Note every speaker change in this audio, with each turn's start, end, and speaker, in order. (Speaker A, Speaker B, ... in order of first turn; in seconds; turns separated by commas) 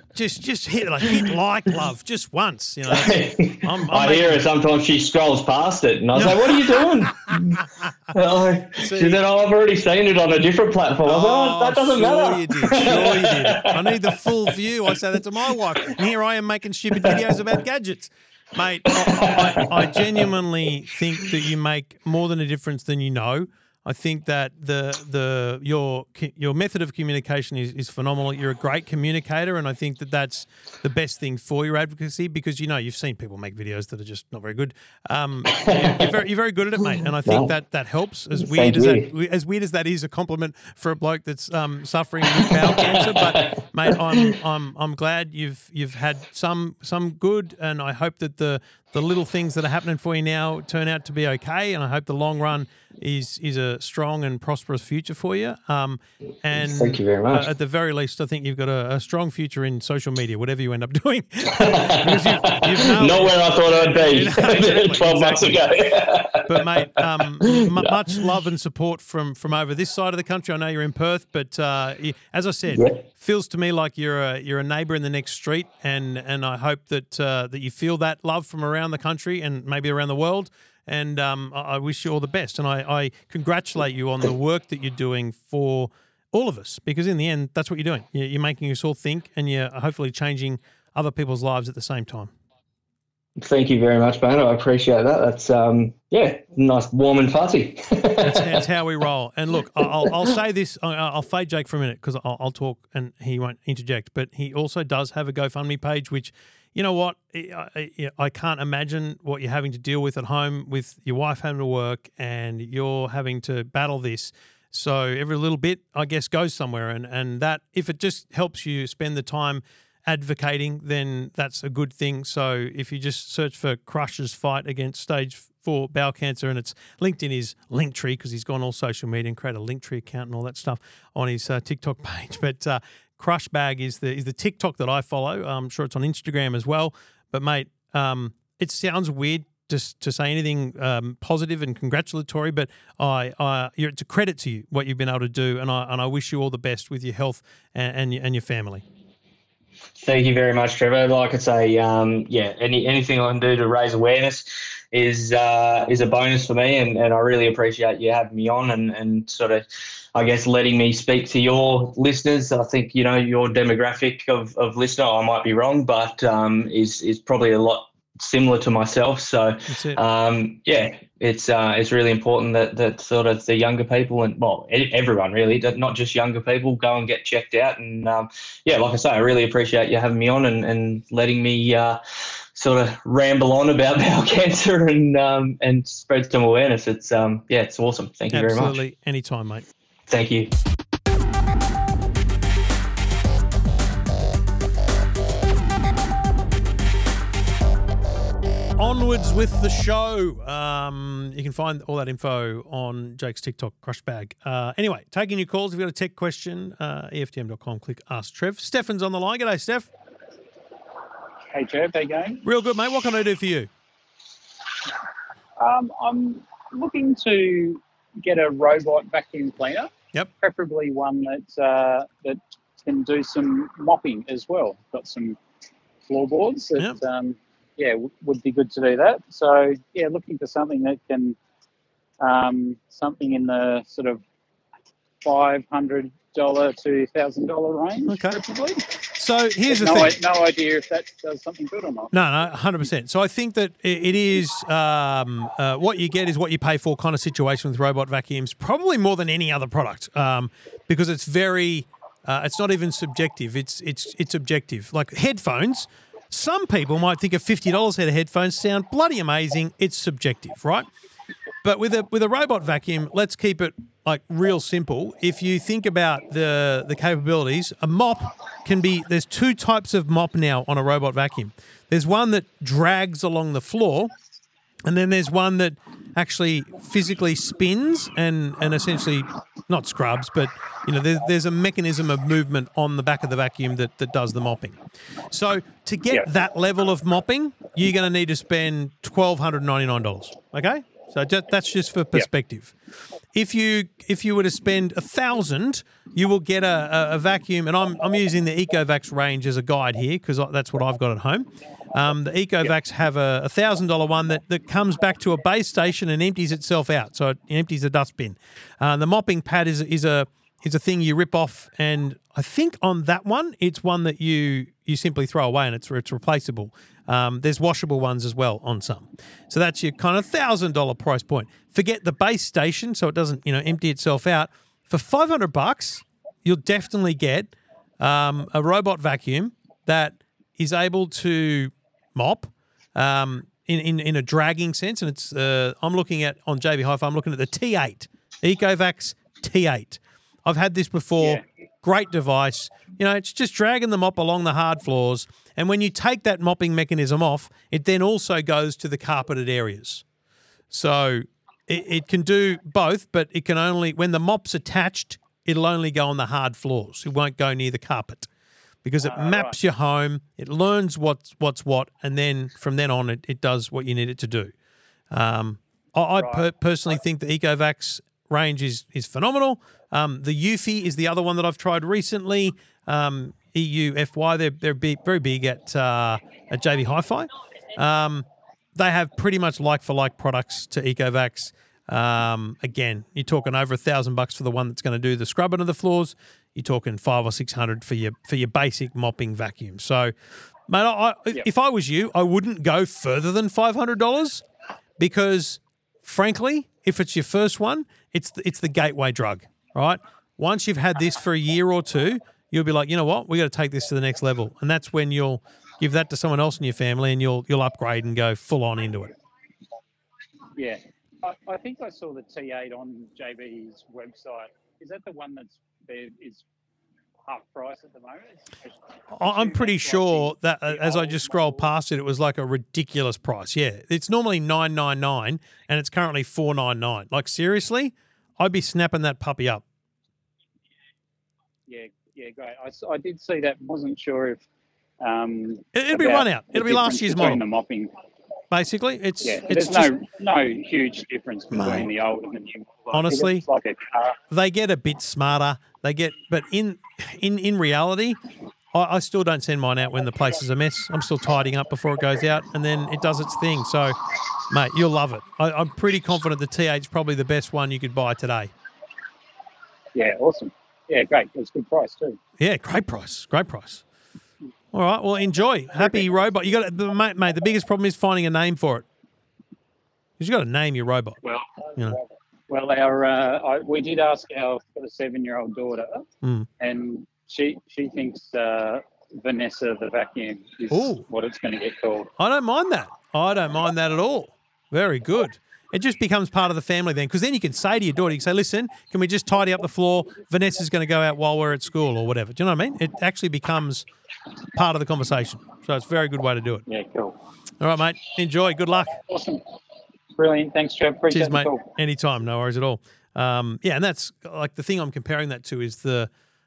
Speaker A: 0.1-4.4, Speaker B: 2.9-7.6, Speaker A: 6.2-8.1, Speaker B: 8.1-14.1, Speaker A: 8.8-9.2, Speaker A: 11.1-65.7, Speaker B: 18.9-20.0, Speaker B: 35.5-36.0, Speaker B: 37.2-37.5, Speaker B: 38.4-39.1, Speaker B: 42.4-44.3, Speaker B: 56.6-57.5, Speaker B: 61.6-68.0, Speaker A: 66.5-92.3, Speaker B: 72.7-73.0, Speaker B: 93.4-98.6, Speaker A: 98.2-148.8, Speaker B: 150.0-182.0, Speaker A: 169.7-170.0, Speaker B: 182.6-188.8, Speaker A: 188.3-189.7, Speaker B: 190.1-190.5, Speaker A: 198.8-209.9, Speaker C: 211.5-212.4, Speaker A: 212.4-213.7, Speaker C: 215.6-225.4, Speaker C: 226.1-231.4, Speaker C: 232.2-234.2, Speaker C: 235.2-238.9, Speaker A: 238.1-238.4, Speaker A: 239.1-240.2, Speaker C: 239.7-242.1, Speaker A: 242.1-260.9, Speaker A: 261.6-274.1, Speaker A: 274.9-284.8, Speaker A: 285.3-292.8, Speaker A: 293.3-350.0, Speaker A: 350.7-358.3, Speaker A: 358.8-364.5, Speaker C: 359.0-359.6, Speaker A: 365.1-390.1, Speaker C: 366.2-366.5, Speaker A: 390.7-394.4, Speaker A: 395.0-409.1, Speaker C: 410.6-416.4, Speaker C: 417.3-421.7, Speaker A: 419.1-429.6, Speaker C: 431.7-434.4, Speaker C: 435.0-437.9, Speaker A: 435.7-437.4, Speaker A: 438.5-439.9, Speaker C: 439.2-444.2, Speaker A: 441.5-441.9, Speaker A: 442.9-443.4, Speaker A: 444.3-448.2, Speaker A: 448.7-458.5, Speaker C: 459.9-462.2, Speaker A: 462.4-463.8, Speaker A: 464.7-468.9, Speaker A: 470.2-471.2, Speaker C: 471.2-476.1, Speaker A: 476.2-476.5, Speaker C: 476.6-482.1, Speaker A: 480.7-481.1, Speaker A: 482.2-493.9, Speaker A: 494.5-496.6, Speaker C: 496.7-497.2, Speaker A: 497.6-499.0, Speaker C: 499.0-499.4, Speaker C: 500.1-501.7, Speaker A: 501.1-506.1